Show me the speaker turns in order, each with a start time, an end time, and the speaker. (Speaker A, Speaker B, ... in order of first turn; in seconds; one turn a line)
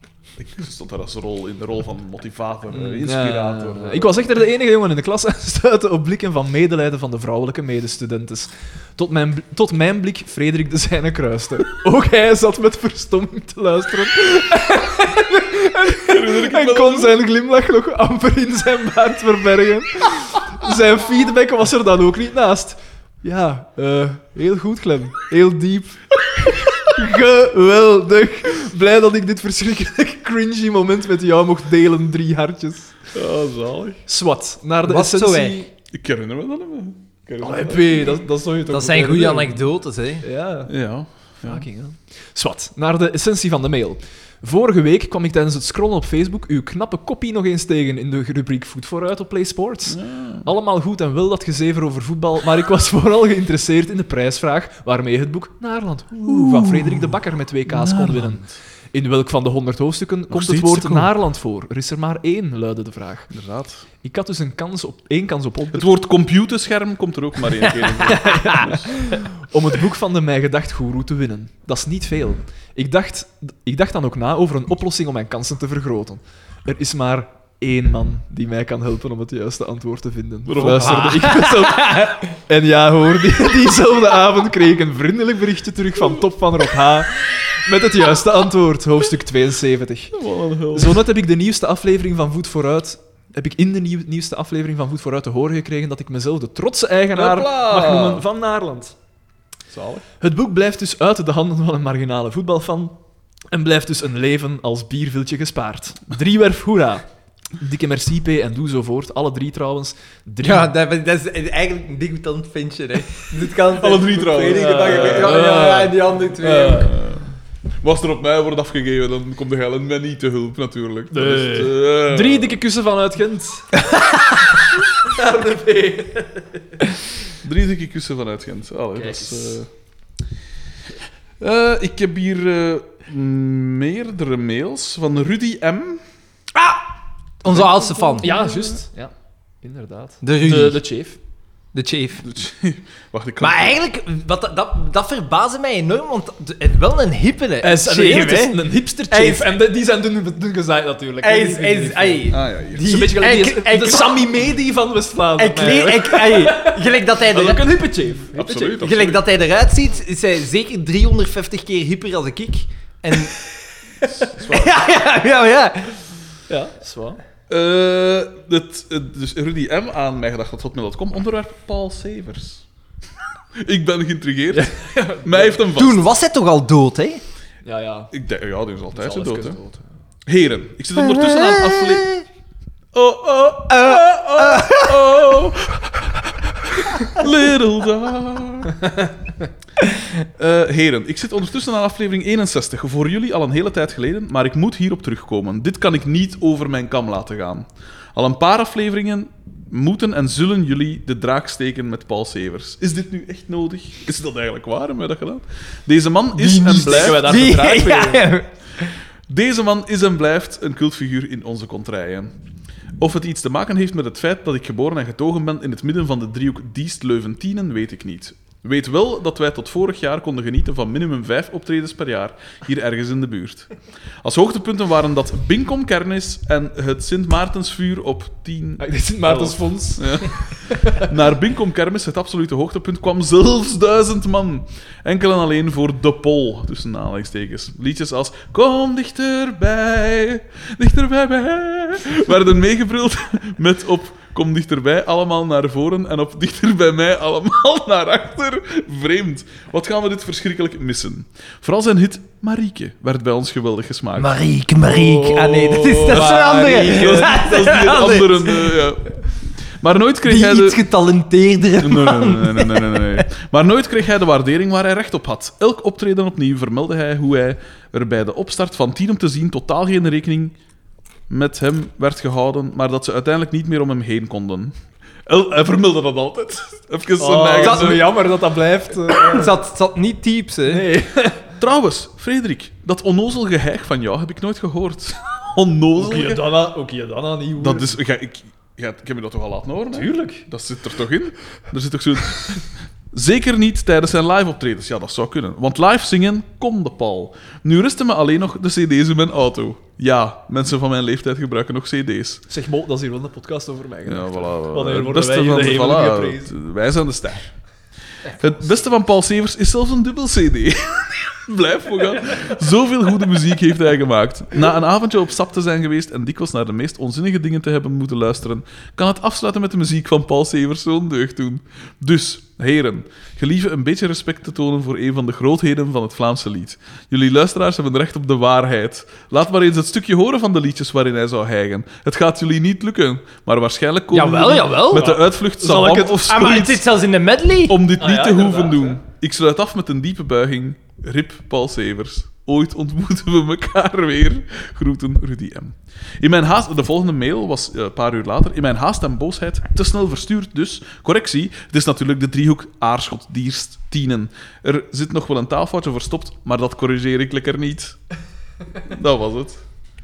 Speaker A: 0.4-4.2
Speaker B: 2.7-33.0
Speaker A: 16.0-17.2
Speaker A: 33.1-34.0
Speaker B: 34.1-35.7
Speaker C: 34.8-35.6
Speaker A: 35.9-38.2
Speaker B: 37.4-39.7
Speaker C: 38.7-40.2
Speaker B: 40.2-40.7
Speaker A: 40.7-41.6
Speaker B: 41.4-63.3
Speaker A: 49.9-50.5
Speaker A: 56.2-58.5
Speaker A: 60.3-61.1
Speaker A: 63.3-63.9
Speaker B: 64.0-65.9
Speaker A: 65.7-69.0
Speaker B: 68.0-99.0
Speaker C: 68.1-68.7
Speaker A: 80.5-81.2
Speaker C: 80.6-82.3
Speaker A: 90.1-91.0
Speaker A: 97.1-98.2
Speaker A: 99.7-100.0
Speaker B: 100.2-103.0
Speaker B: 103.5-110.7
Speaker C: 110.4-116.9
Speaker A: 113.7-115.5
Speaker B: 114.4-117.0
Speaker A: 116.7-117.3
Speaker A: 117.8-122.6
Speaker B: 121.1-126.8
Speaker A: 127.4-129.7
Speaker B: 128.9-129.6
Speaker A: 131.4-136.0
Speaker C: 136.5-136.9
Speaker C: 137.4-138.3
Speaker A: 137.7-138.5
Speaker B: 138.2-141.2
Speaker C: 140.2-140.8
Speaker C: 141.7-142.2
Speaker A: 142.2-143.8
Speaker C: 143.4-149.5
Speaker B: 147.6-158.9
Speaker C: 151.2-154.3
Speaker A: 152.3-153.0
Speaker C: 155.4-157.8
Speaker A: 158.3-159.2
Speaker C: 158.8-163.4
Speaker A: 164.0-164.8
Speaker C: 164.0-166.0
Speaker B: 166.5-167.2
Speaker A: 167.5-172.6
Speaker A: 173.6-176.0
Speaker B: 174.5-175.6
Speaker C: 175.7-177.2
Speaker B: 177.6-178.1
Speaker A: 178.1-179.6
Speaker B: 178.9-179.9
Speaker A: 180.2-182.2
Speaker C: 181.0-182.2
Speaker A: 182.9-188.8
Speaker C: 183.7-184.9
Speaker A: 190.3-207.3
Speaker C: 206.3-208.9
Speaker B: 206.8-208.3
Speaker A: 209.3-212.3
Speaker A: 213.0-260.8
Speaker B: 228.8-231.1
Speaker C: 254.2-258.8
Speaker B: 256.1-257.4
Speaker C: 260.2-263.3
Speaker A: 261.8-270.5
Speaker A: 271.3-274.7
Speaker A: 275.2-278.2
Speaker B: 277.2-279.5
Speaker C: 277.6-278.0
Speaker C: 279.1-280.8
Speaker B: 280.7-281.5
Speaker A: 281.6-286.5
Speaker B: 285.9-288.0
Speaker A: 287.6-302.4
Speaker B: 289.9-290.4
Speaker B: 302.5-306.5
Speaker A: 304.1-307.5
Speaker A: 308.3-336.8
Speaker C: 334.1-335.2
Speaker B: 334.9-336.3
Speaker C: 336.0-337.8
Speaker A: 337.7-358.0
Speaker B: 338.0-339.0
Speaker A: 358.8-359.6